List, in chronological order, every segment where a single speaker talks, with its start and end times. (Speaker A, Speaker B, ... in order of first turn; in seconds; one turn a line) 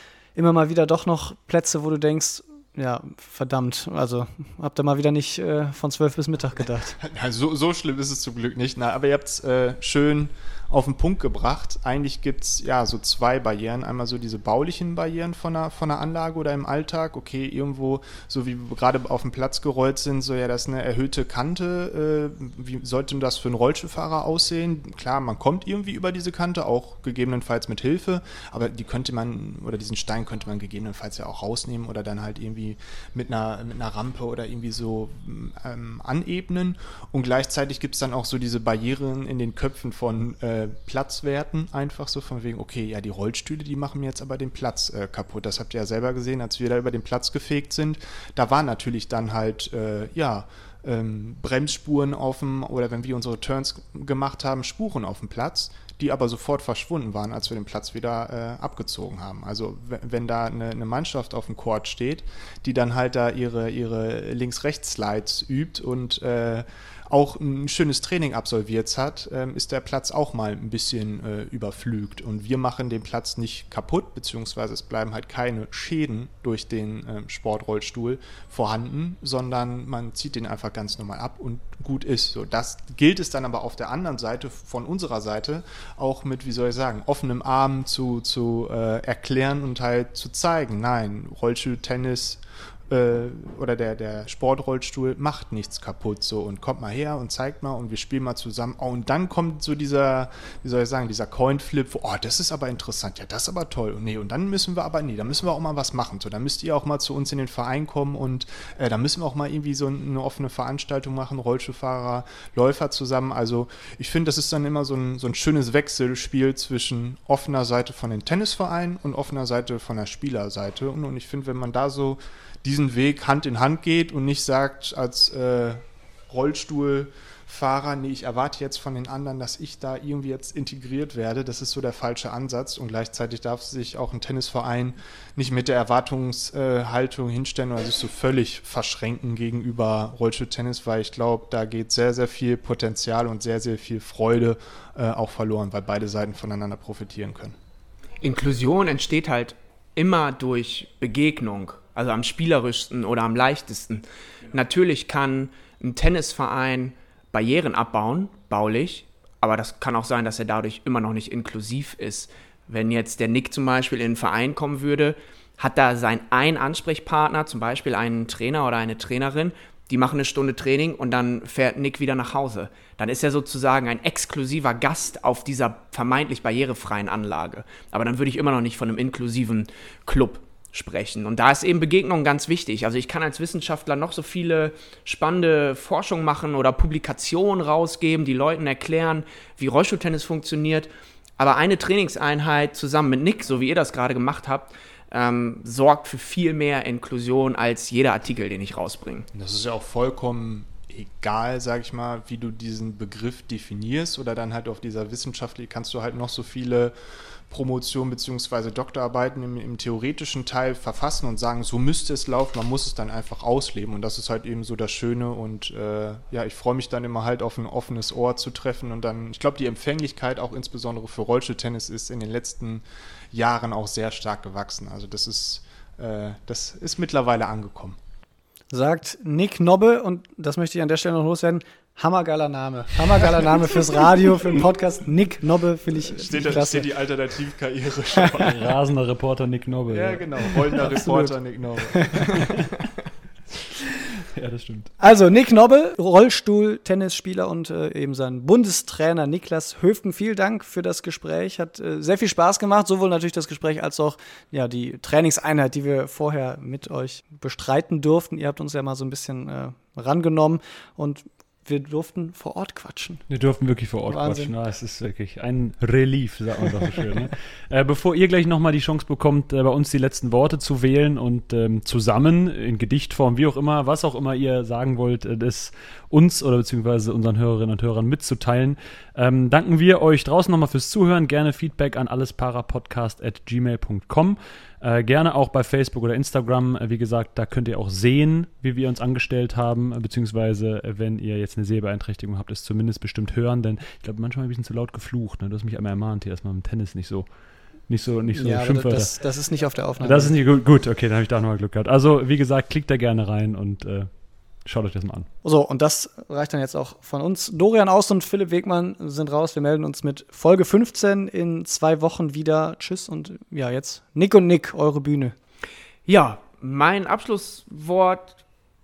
Speaker A: 0.3-7.0
Speaker B: 7.0-147.5
Speaker C: 148.2-199.3
Speaker B: 199.3-206.9
Speaker B: 207.5-228.0
Speaker A: 228.7-236.9
Speaker B: 236.0-238.7
Speaker D: 238.4-240.6
Speaker B: 239.9-242.6
Speaker A: 240.8-241.3
Speaker A: 241.9-242.5
Speaker D: 244.3-244.9
Speaker A: 245.0-263.2
Speaker D: 263.3-297.3
Speaker A: 264.1-264.5
Speaker D: 297.8-299.2
Speaker A: 298.4-300.3
Speaker D: 300.0-305.3
Speaker A: 305.4-315.3
Speaker C: 316.1-318.4